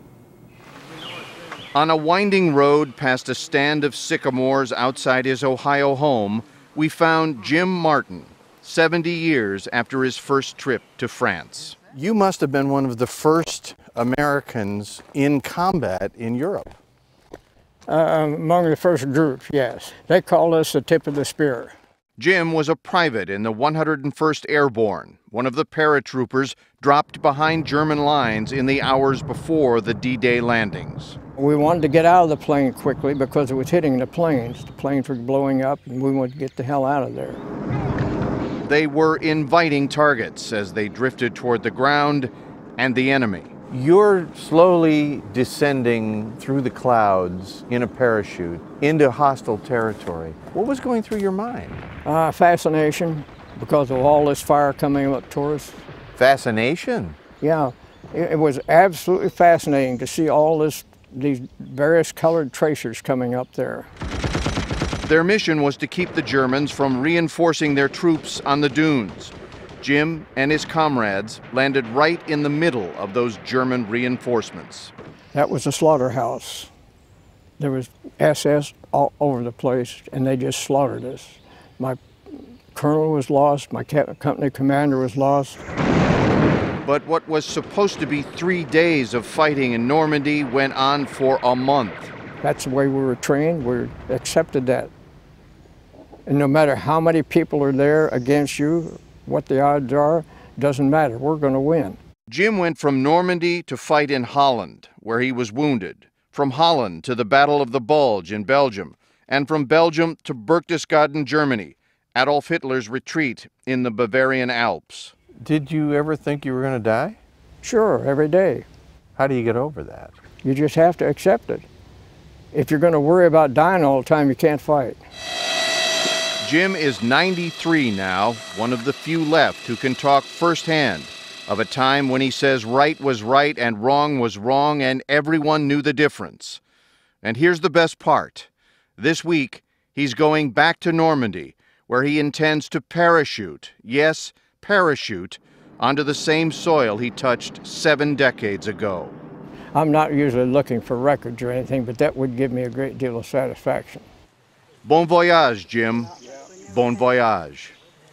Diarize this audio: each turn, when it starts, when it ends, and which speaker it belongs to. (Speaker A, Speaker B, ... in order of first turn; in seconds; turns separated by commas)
Speaker A: 1.8-16.8, Speaker B: 17.9-21.7, Speaker A: 22.2-31.2, Speaker B: 31.4-37.4, Speaker A: 38.6-51.8, Speaker B: 52.0-55.8, Speaker A: 56.2-57.2, Speaker B: 57.4-63.9, Speaker A: 65.0-74.9, Speaker B: 75.3-76.7, Speaker B: 77.6-82.0, Speaker B: 82.7-85.6, Speaker A: 86.8-92.1, Speaker B: 92.4-94.9, Speaker B: 96.3-102.0, Speaker A: 102.3-117.2, Speaker B: 117.6-118.7, Speaker A: 119.2-120.1, Speaker B: 120.4-121.7, Speaker B: 122.5-125.0, Speaker A: 126.4-136.6, Speaker A: 137.2-149.2, Speaker B: 149.7-154.1, Speaker A: 154.8-156.1, Speaker A: 156.7-157.8